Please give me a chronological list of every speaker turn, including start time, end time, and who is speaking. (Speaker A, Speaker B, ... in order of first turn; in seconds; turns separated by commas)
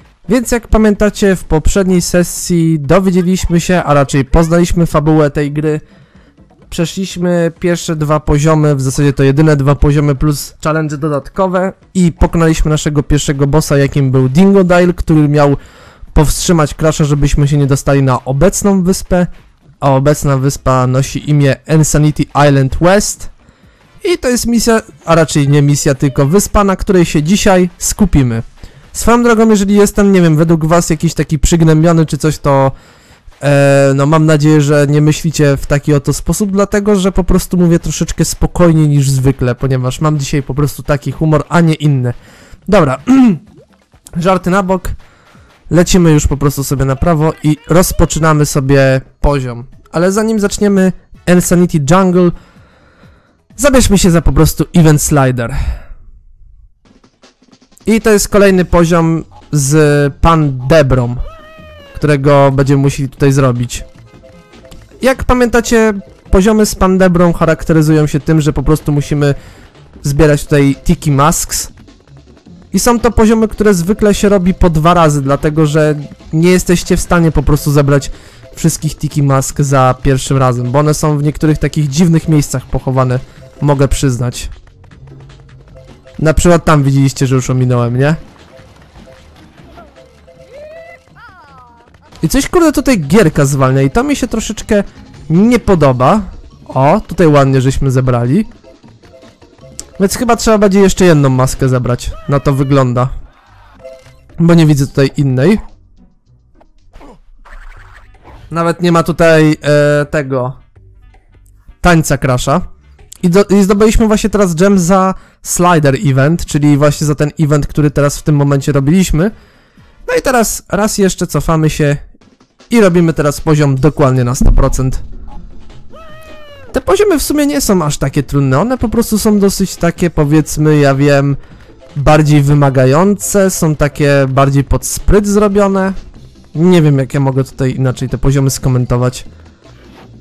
Speaker A: 0.3-5.8, Speaker A: 6.7-15.6, Speaker A: 16.1-19.3, Speaker A: 19.8-23.3, Speaker A: 24.0-32.8, Speaker A: 33.4-42.2, Speaker A: 42.7-43.4, Speaker A: 44.2-45.0, Speaker A: 45.7-52.3, Speaker A: 53.6-55.6, Speaker A: 57.9-61.2, Speaker A: 61.9-63.9, Speaker A: 65.0-69.3, Speaker A: 70.0-71.7, Speaker A: 72.7-84.5, Speaker A: 86.2-88.2, Speaker A: 92.2-98.5, Speaker A: 100.0-103.1, Speaker A: 104.4-105.6, Speaker A: 108.5-110.6, Speaker A: 111.8-112.7, Speaker A: 113.2-119.3, Speaker A: 120.1-122.0, Speaker A: 122.7-125.0, Speaker A: 126.7-131.4, Speaker A: 131.9-136.0, Speaker A: 136.5-139.3